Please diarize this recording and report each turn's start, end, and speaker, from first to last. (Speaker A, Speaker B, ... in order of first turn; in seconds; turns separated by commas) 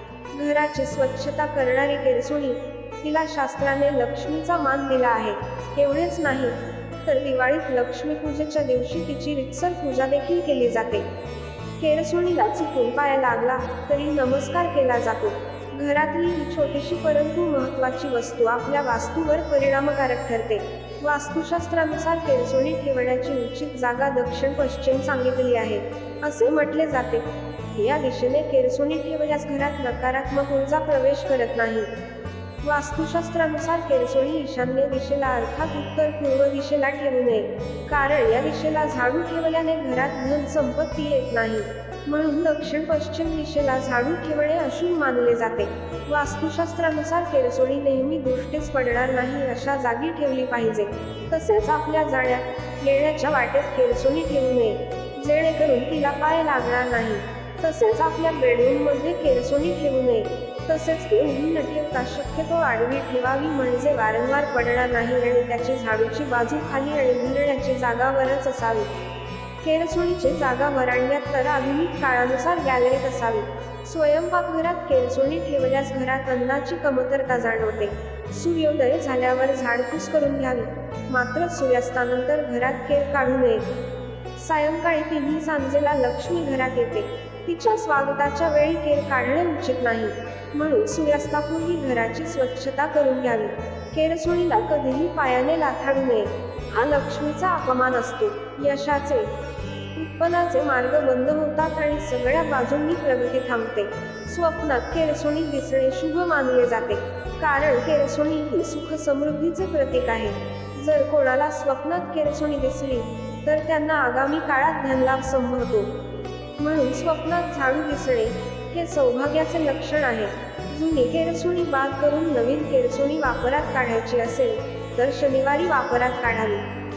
Speaker A: 0.3-11.1, Speaker A: 11.8-31.9, Speaker A: 32.6-68.9, Speaker A: 69.6-83.7, Speaker A: 84.4-99.3, Speaker A: 100.0-115.9, Speaker A: 116.6-126.7